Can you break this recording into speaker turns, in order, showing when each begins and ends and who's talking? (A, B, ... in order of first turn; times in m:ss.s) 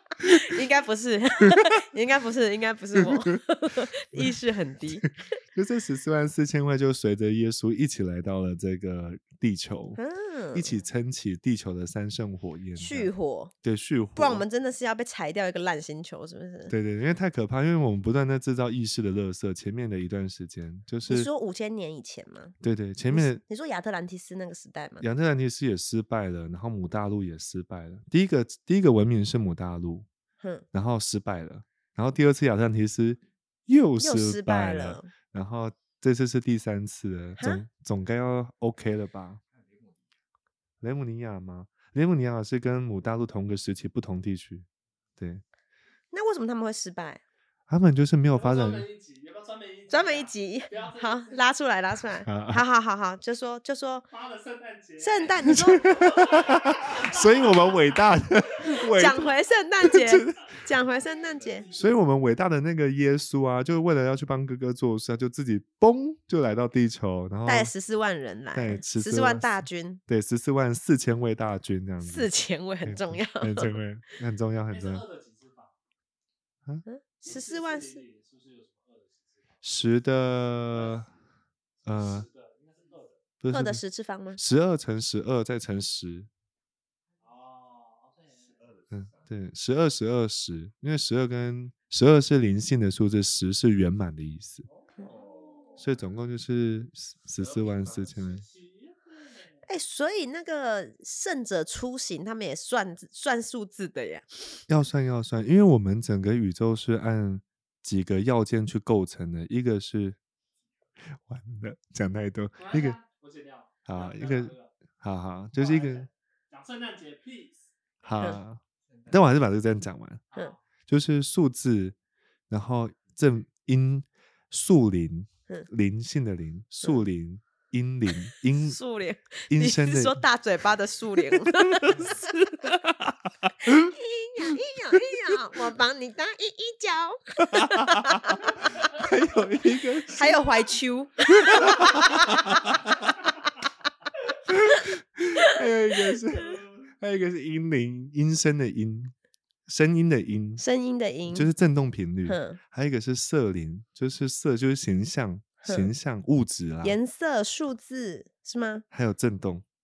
0:00.2-0:05.3 A
0:00.2-0:00.6 B
0:03.0-0:03.4 B
0:05.0-0:10.0 B
0:10.0-0:10.8 A
0:10.5-0:13.1 B
0:12.8-0:13.5 A
0:13.6-0:14.4 B
0:14.2-0:16.7 A
0:16.7-0:21.3 B
0:21.1-0:22.5 A
0:22.6-0:23.4 B
0:23.1-0:25.0 A
0:25.0-0:30.1 B
0:30.7-0:39.4 B
0:34.0-0:35.1 A
0:40.8-0:44.6 B
0:45.2-0:45.4 B
0:46.1-0:47.2 A
0:47.7-0:48.8 B
0:48.3-0:51.4 C
0:49.9-0:54.1 A
0:52.2-0:52.6 B
0:54.1-0:57.6 C
0:55.0-0:55.9 A
0:55.5-1:00.4 B
0:58.9-1:01.7 A
1:01.7-1:07.7 B
1:07.4-1:10.0 A
1:08.5-1:12.3 B
1:12.0-1:13.8 A
1:12.8-1:15.0 B
1:14.7-1:15.7 C
1:16.8-1:18.0 A
1:17.2-1:19.6 C
1:19.6-1:21.1 B
1:21.8-1:22.2 B
1:21.9-1:23.2 C
1:23.4-1:23.8 B
1:23.5-1:24.4 A
1:24.4-1:26.3 B
1:27.2-1:28.7 C
1:28.9-1:34.7 B
1:34.7-1:35.8 C
1:35.8-1:38.4 B
1:37.4-1:39.6 C
1:39.6-1:44.2 A
1:44.7-1:50.2 B
1:51.1-1:53.0 B
1:52.6-1:54.7 C
1:53.8-1:56.1 B
1:55.6-1:57.7 C
1:58.0-2:00.2 B
2:00.3-2:00.6 C
2:00.9-2:02.0 B
2:02.5-2:08.8 B
2:08.6-2:12.7 A
2:09.5-2:10.2 B
2:11.3-2:13.9 B
2:13.6-2:18.7 A
2:17.5-2:20.4 B
2:20.1-2:22.6 A
2:21.4-2:22.6 B
2:24.5-2:29.1 B
2:29.7-2:30.6 B
2:30.6-2:31.5 A
2:31.3-2:37.0 B
2:32.2-2:32.6 A
2:35.6-2:35.9 A
2:36.8-2:38.8 A
2:38.9-2:39.6 B